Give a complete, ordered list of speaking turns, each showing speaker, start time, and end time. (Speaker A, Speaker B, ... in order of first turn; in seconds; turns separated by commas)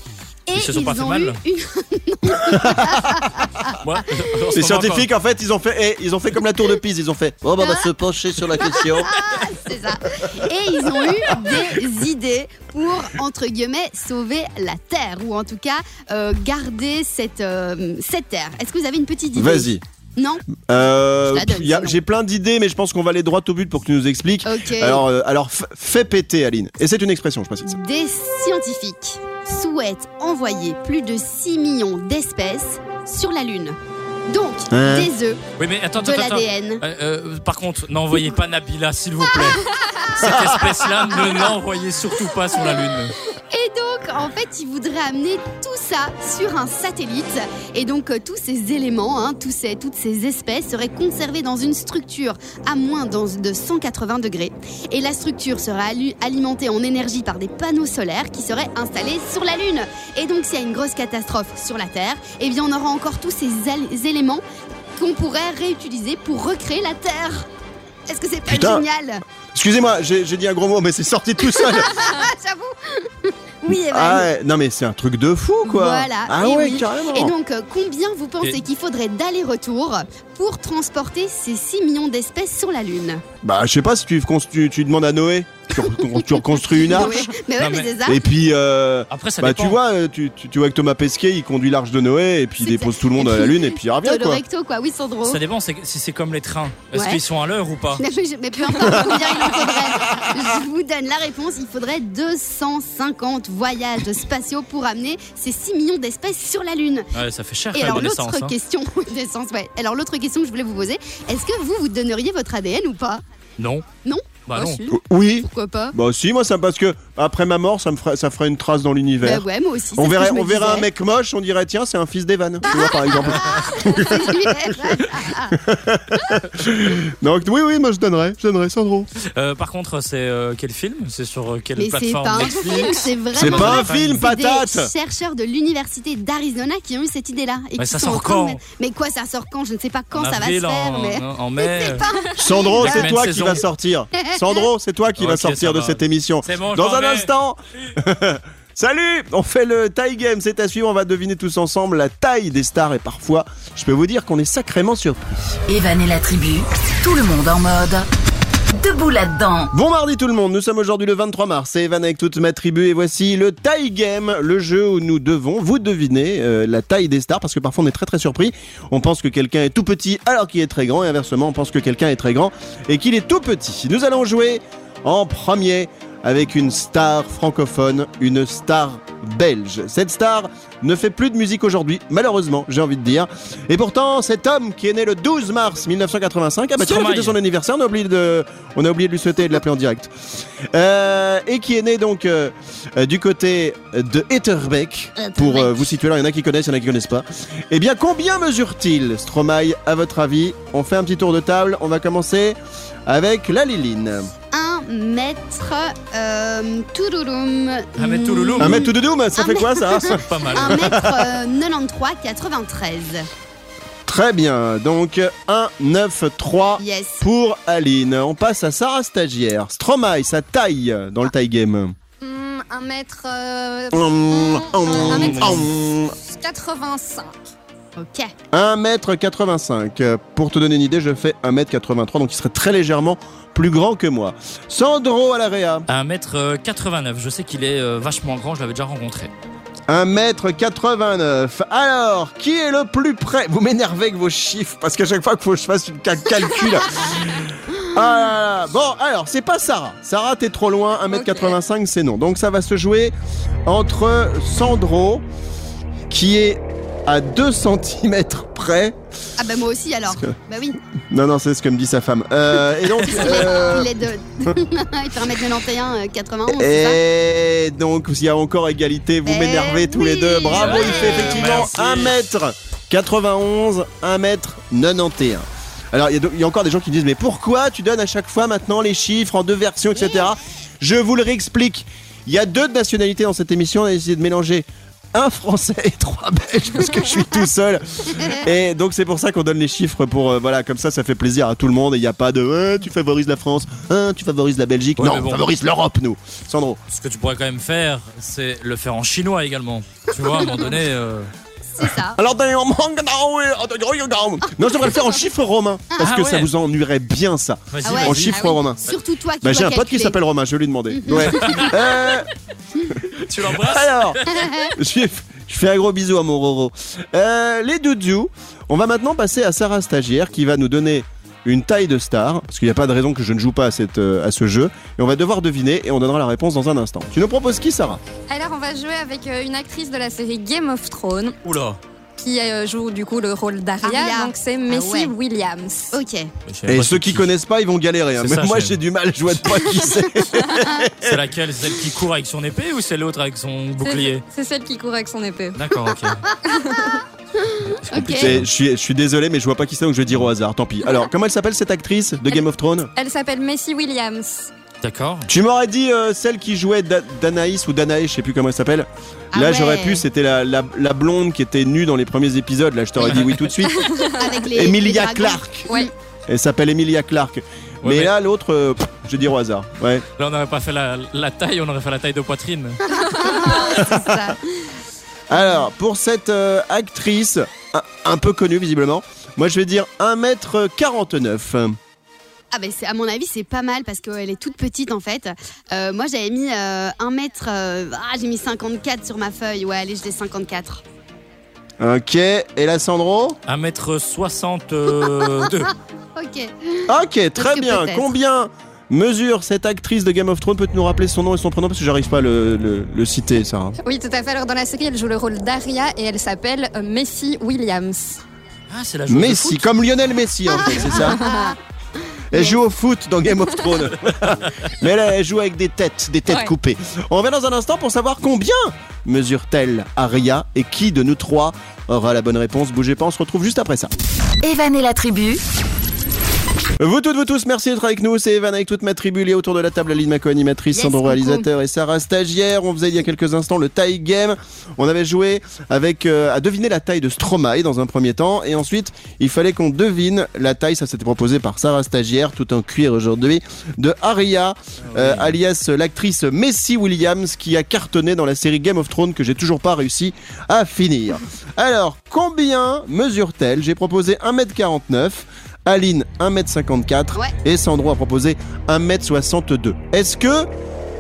Speaker A: 0.5-3.8, Speaker B: 0.5-1.4, Speaker C: 2.4-3.4, Speaker B: 3.8-5.1, Speaker C: 4.5-9.1, Speaker A: 7.6-7.9, Speaker A: 8.7-20.5, Speaker C: 11.0-11.6, Speaker C: 19.4-19.8, Speaker C: 20.6-27.8, Speaker A: 21.3-22.0, Speaker A: 24.4-25.1, Speaker A: 27.6-33.8, Speaker A: 34.3-35.4, Speaker C: 34.7-35.1, Speaker B: 35.6-43.2, Speaker A: 36.0-36.8, Speaker C: 40.2-40.7, Speaker A: 43.5-64.4, Speaker A: 65.0-67.5, Speaker A: 68.1-69.2, Speaker C: 68.5-68.8, Speaker C: 69.5-71.9, Speaker A: 71.4-74.3, Speaker C: 73.7-77.3, Speaker A: 75.7-83.2, Speaker C: 83.4-87.2, Speaker A: 85.8-88.2, Speaker B: 87.6-88.0, Speaker C: 88.1-94.4, Speaker B: 89.1-89.8, Speaker A: 92.6-95.4, Speaker B: 95.2-98.0, Speaker A: 96.9-97.2, Speaker A: 98.0-107.1, Speaker C: 99.2-100.3, Speaker B: 107.1-108.5, Speaker A: 107.7-113.2, Speaker B: 113.6-113.8, Speaker A: 114.0-116.0, Speaker B: 114.5-114.8, Speaker C: 114.9-119.5, Speaker A: 119.2-120.9, Speaker C: 120.0-124.8, Speaker A: 122.7-125.6, Speaker C: 125.5-129.1, Speaker B: 129.4-134.2, Speaker A: 131.8-143.1, Speaker C: 133.4-134.9, Speaker B: 137.8-138.6, Speaker B: 140.1-142.1, Speaker C: 142.4-155.6, Speaker B: 142.8-143.6, Speaker A: 144.2-144.6, Speaker B: 145.2-148.0, Speaker D: 155.7-158.1, Speaker D: 158.7-159.7, Speaker C: 159.7-190.1, Speaker B: 186.8-187.4, Speaker C: 190.7-204.3, Speaker A: 195.2-195.7, Speaker A: 204.5-213.3, Speaker B: 208.0-208.8, Speaker C: 208.6-211.3, Speaker B: 210.2-210.9, Speaker C: 214.1-222.0, Speaker A: 216.8-217.2, Speaker E: 222.2-225.7, Speaker C: 223.9-226.2, Speaker B: 225.0-225.7, Speaker E: 226.3-227.4, Speaker A: 228.0-228.3, Speaker C: 228.5-235.9, Speaker B: 235.9-239.3, Speaker C: 239.9-253.1, Speaker C: 253.7-255.2, Speaker C: 256.1-259.0, Speaker A: 259.4-260.8, Speaker C: 261.1-263.9, Speaker A: 263.0-267.0, Speaker C: 266.5-296.8, Speaker A: 269.3-271.6, Speaker B: 270.5-272.2, Speaker B: 295.0-295.4, Speaker B: 296.9-301.3, Speaker A: 301.8-302.2, Speaker C: 301.8-308.8, Speaker B: 306.0-306.5, Speaker B: 307.7-308.4, Speaker A: 307.9-310.2, Speaker C: 309.4-312.3, Speaker A: 310.9-311.7, Speaker B: 311.1-311.8, Speaker B: 313.2-314.4, Speaker C: 313.4-314.2, Speaker A: 314.3-314.7, Speaker C: 314.8-328.0, Speaker E: 328.3-331.4, Speaker B: 331.4-331.8, Speaker E: 332.2-336.0, Speaker A: 333.8-335.1, Speaker A: 335.9-336.3, Speaker B: 336.5-337.3, Speaker C: 336.7-341.2, Speaker B: 338.2-338.8, Speaker B: 341.0-344.2, Speaker E: 343.8-345.9, Speaker B: 345.6-346.2, Speaker E: 346.4-347.0, Speaker A: 346.7-348.3, Speaker B: 347.7-348.5, Speaker C: 348.2-352.9, Speaker E: 353.0-354.5, Speaker B: 354.8-355.3, Speaker C: 355.3-363.9, Speaker A: 359.3-360.0, Speaker B: 363.1-363.4, Speaker E: 363.7-364.4, Speaker A: 364.2-365.9, Speaker C: 364.4-365.7, Speaker C: 366.3-370.1, Speaker B: 367.8-368.1, Speaker B: 370.2-372.8, Speaker A: 372.9-374.4, Speaker E: 373.2-373.5, Speaker C: 375.3-381.8, Speaker A: 382.5-390.8, Speaker C: 391.8-393.4, Speaker B: 393.5-395.7, Speaker A: 395.2-395.5, Speaker A: 396.2-398.1, Speaker C: 396.9-403.8, Speaker E: 403.8-408.2, Speaker B: 408.7-409.7, Speaker C: 409.1-411.2, Speaker A: 410.7-411.6, Speaker E: 411.0-411.6, Speaker C: 412.3-423.9, Speaker D: 424.4-425.4, Speaker C: 426.8-460.5, Speaker A: 430.7-431.5, Speaker B: 444.8-445.4